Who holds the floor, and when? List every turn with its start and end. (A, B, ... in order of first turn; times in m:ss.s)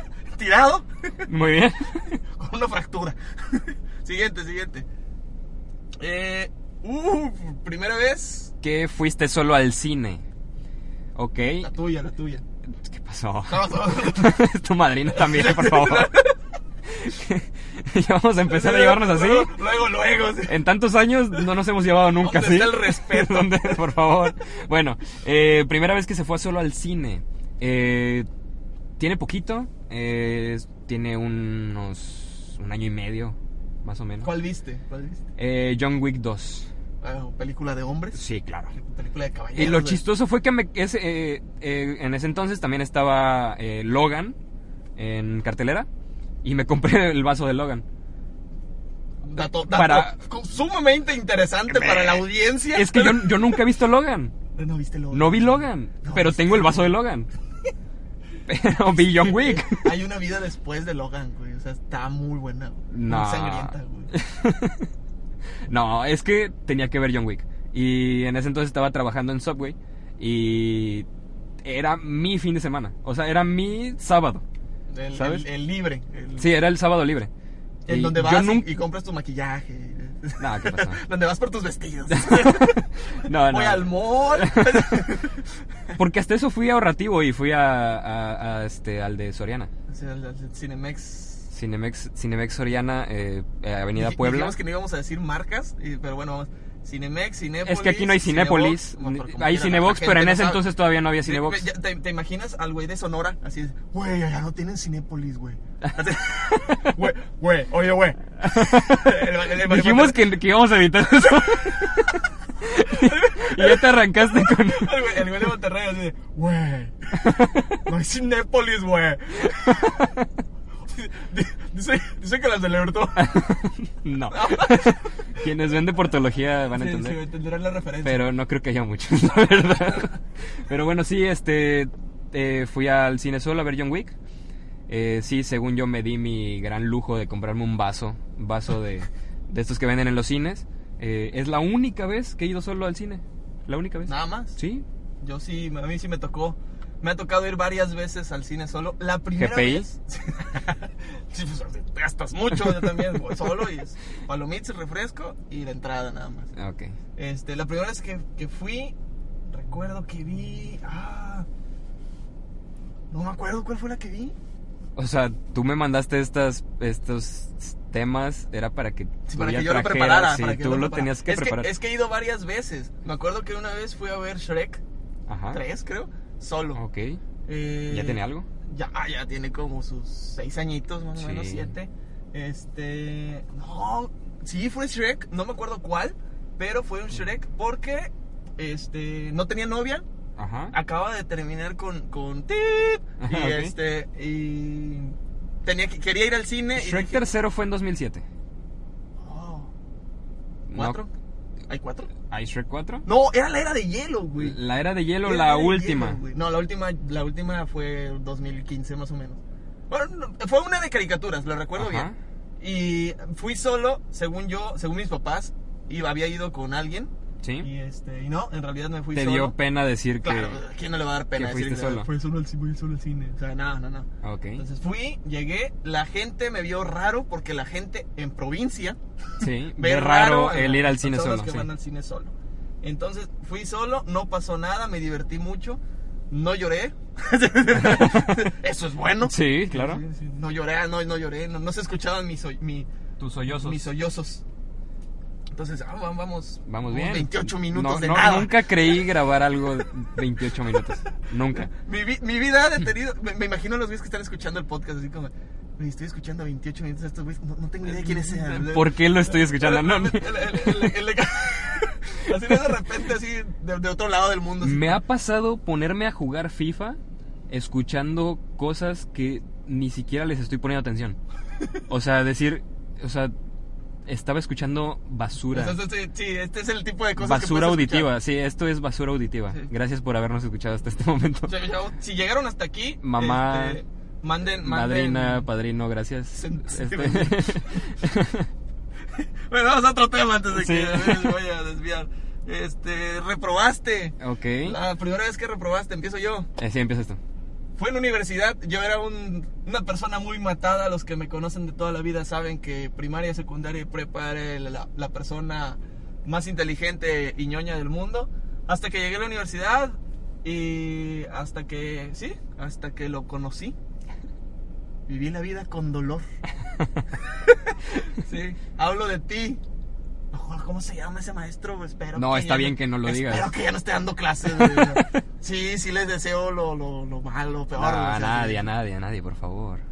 0:00.4-0:01.2 A
0:01.2-0:02.2 B
0:02.3-0:04.8 A
0:06.0-0:08.5 A
0:08.6-0:10.2 B
0:11.2-0:11.7 B
0:11.6-0:12.4 A
0:12.8-0:16.1 B
0:13.4-0:14.4 A
0:15.1-0:16.4 A
0:16.9-0:19.6 B
0:18.5-0:20.5 A
0:20.5-0:28.3 B
0:22.2-0:23.8 A
0:29.0-0:34.3 B
0:34.2-0:35.2 A
0:35.4-0:36.7 B
0:37.0-0:38.2 A
0:38.1-0:38.7 B
0:38.7-0:40.0 A
0:39.5-0:44.3 B
0:45.0-0:45.9 B
0:46.4-0:47.8 B
0:49.2-0:53.6 A
0:49.7-0:50.2 B
0:51.7-0:54.3 B
0:54.5-0:57.0 A
0:55.1-0:57.3 B
0:58.5-0:59.9 B
0:58.9-1:04.1 A
1:02.9-1:04.9 B
1:05.7-1:11.1 B
1:11.6-1:14.4 B
1:14.9-1:16.5 A
1:15.1-1:15.4 B
1:16.4-1:17.3 B
1:17.8-1:25.9 A
1:17.9-1:18.7 B
1:20.4-1:21.0 B
1:22.1-1:25.1 B
1:26.0-1:29.7 B
1:29.9-1:31.5 A
1:31.5-1:34.6 B
1:34.0-1:40.6 A
1:37.6-1:41.6 B
1:41.2-1:50.2 A
1:48.4-1:52.1 B
1:52.6-1:55.0 B
1:52.9-2:00.1 A
1:57.2-1:57.8 B
2:00.9-2:03.6 A
2:03.2-2:07.2 B
2:04.3-2:05.5 A
2:06.7-2:08.2 A
2:08.0-2:14.1 B
2:14.9-2:24.8 B
2:24.0-2:24.6 A
2:25.2-2:36.5 A
2:29.3-2:29.8 B
2:36.6-2:36.9 B
2:37.2-2:38.9 A
2:39.5-2:41.5 A
2:43.1-2:44.4 A
2:45.0-2:51.7 B
2:49.3-2:54.8 A
2:55.3-2:55.6 B
2:55.5-2:56.8 A
2:56.7-2:57.2 B
2:57.4-3:10.0 A
2:57.9-2:58.5 B
3:01.2-3:01.7 B
3:10.4-3:10.7 B
3:10.7-3:17.3 A
3:13.2-3:13.7 B
3:16.8-3:18.2 B
3:19.2-3:19.7 A
3:20.7-3:21.0 B
3:20.7-3:21.1 A
3:21.7-3:22.1 A
3:22.3-3:23.0 B
3:23.0-3:24.6 A
3:24.4-3:26.2 B
3:25.2-3:32.1 A
3:31.8-3:32.1 B
3:32.6-3:39.5 A
3:37.4-3:37.7 B
3:39.1-3:40.6 B
3:40.2-3:55.8 A
3:41.3-3:42.1 B
3:44.2-3:44.6 B
3:49.4-3:51.7 B
3:56.3-4:02.9 A
3:57.7-3:58.5 B
3:59.2-4:00.0 B
4:03.2-4:03.8 B
4:03.5-4:04.4 A
4:05.5-4:08.9 A
4:06.7-4:11.7 B
4:11.6-4:25.0 A
4:18.0-4:20.9 B
4:24.6-4:27.0 B
4:27.5-4:31.2 B
4:31.9-4:33.3 B
4:34.1-4:35.8 B
4:35.5-4:38.1 A
4:37.2-4:41.5 B
4:41.5-4:45.5 A
4:43.0-4:43.8 B
4:44.6-4:48.5 B
4:46.3-4:47.8 A
4:49.1-4:56.5 A
4:50.5-4:51.4 B
4:54.2-4:54.8 B
4:56.6-4:57.2 B
4:57.8-5:13.8 A
5:15.1-5:16.2 A
5:17.2-5:19.6 A
5:20.3-5:28.7 A
5:22.1-5:23.5 B
5:24.5-5:25.2 B
5:27.8-5:29.8 B